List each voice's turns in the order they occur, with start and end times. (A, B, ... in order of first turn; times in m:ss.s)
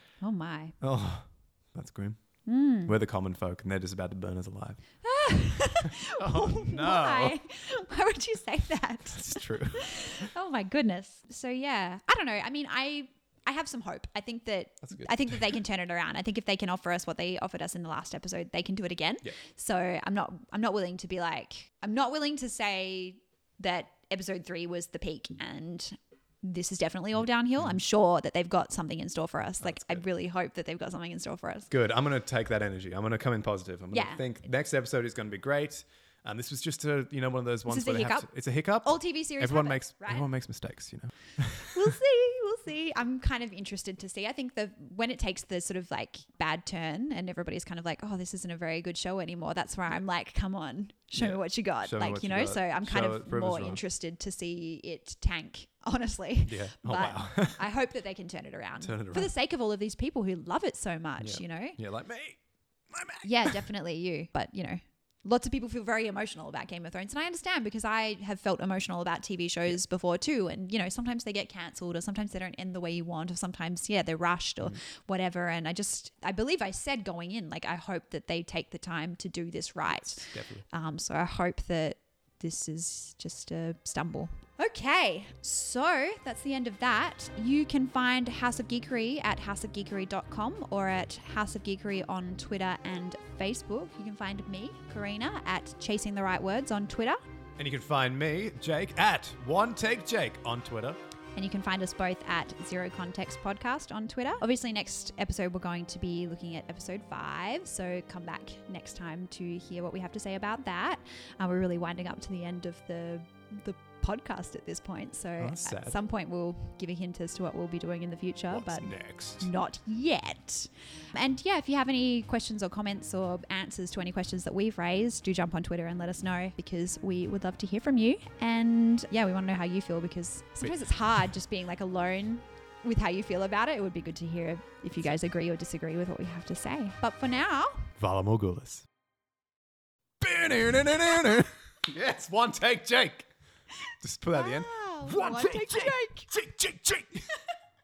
0:00.2-0:00.8 A
0:00.8-0:02.2 B
0:02.5-0:02.9 A
0:02.8-0:04.8 B
0:05.0-0:31.7 A
0:05.8-0:07.4 B
0:09.1-0:10.3 B
0:14.8-0:15.5 B
0:29.6-0:30.0 B
0:31.7-0:41.9 B
0:33.9-0:34.2 A
0:37.7-0:38.3 A
0:38.8-0:40.3 A
0:41.7-1:01.8 A
0:51.2-0:53.8 B
0:56.4-0:57.7 B
0:58.8-0:59.3 B
1:01.2-1:03.7 B
1:03.2-1:37.2 A
1:19.9-1:20.6 B
1:37.6-1:41.0 B
1:41.4-2:17.9 A
1:55.4-1:56.0 B
1:58.5-1:59.5 B
2:18.0-2:18.9 B
2:20.2-2:23.3 B
2:24.0-2:27.2 B
2:24.3-2:26.3 A